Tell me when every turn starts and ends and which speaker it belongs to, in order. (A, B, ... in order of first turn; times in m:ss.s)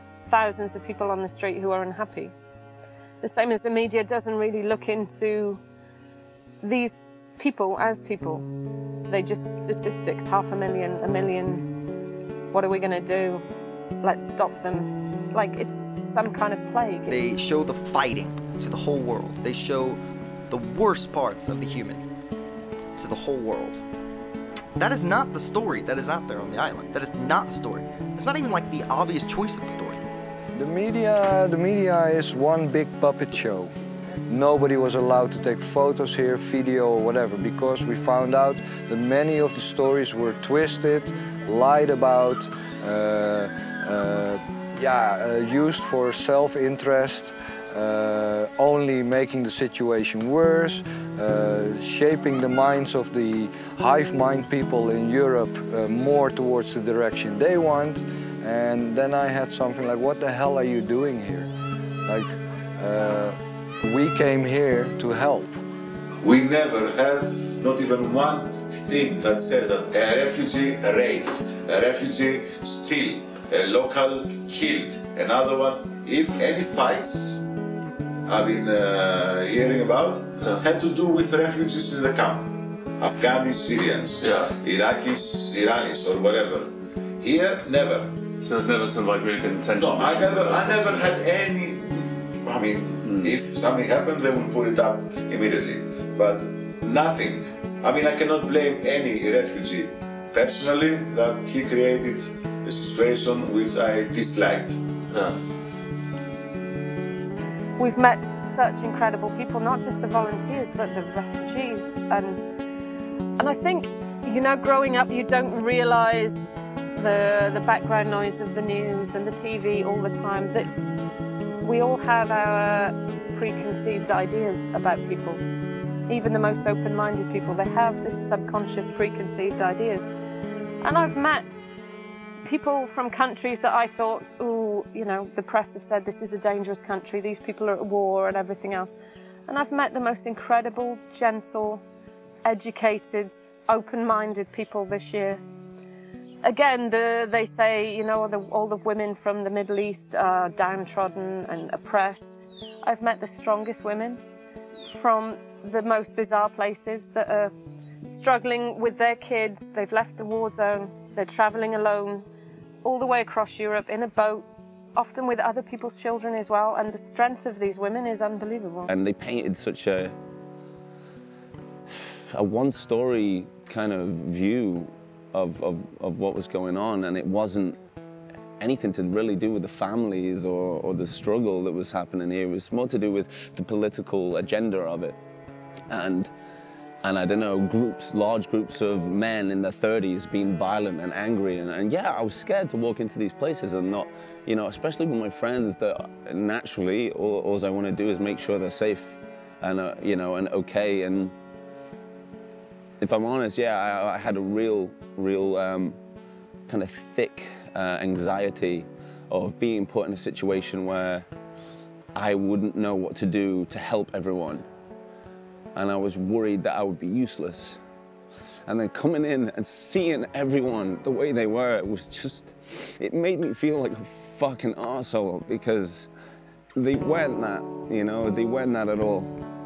0:00.2-0:02.3 A
0:03.2-0:05.6 A
0:06.6-0:08.5 A
0:09.1-0:11.7 A
0:12.5-0:13.4 A
0:14.0-0:17.2 A
0:17.1-0:22.0 B
0:23.0-0:23.8 B
0:24.8-0:30.0 B
0:30.6-0:33.7 C
0:34.3-1:01.5 C
1:02.1-1:05.6 C
1:06.2-1:17.4 D
1:18.3-1:28.1 D
1:20.4-1:20.6 E
1:24.2-1:24.5 E
1:28.4-1:31.2 E
1:29.8-1:44.8 D
1:33.0-1:33.4 E
1:45.1-1:45.4 E
1:47.8-1:52.4 A
1:53.4-2:00.7 A
2:01.6-2:05.4 A
2:06.1-2:10.1 A
2:10.8-2:11.5 A
2:12.4-2:19.0 A
2:19.5-2:21.8 A
2:22.4-2:25.4 A
2:26.4-2:34.2 A
2:34.9-2:37.5 A
2:38.0-2:42.3 A
2:42.8-2:48.9 A
2:48.9-2:50.2 F
2:52.3-2:57.8 F
2:58.6-3:05.2 F
3:05.9-3:06.3 F
3:07.0-3:21.3 F
3:23.0-3:26.0 F
3:26.7-3:31.3 F
3:32.1-3:34.6 F
3:35.7-3:37.8 F
3:38.7-3:46.1 F
3:46.8-3:49.3 F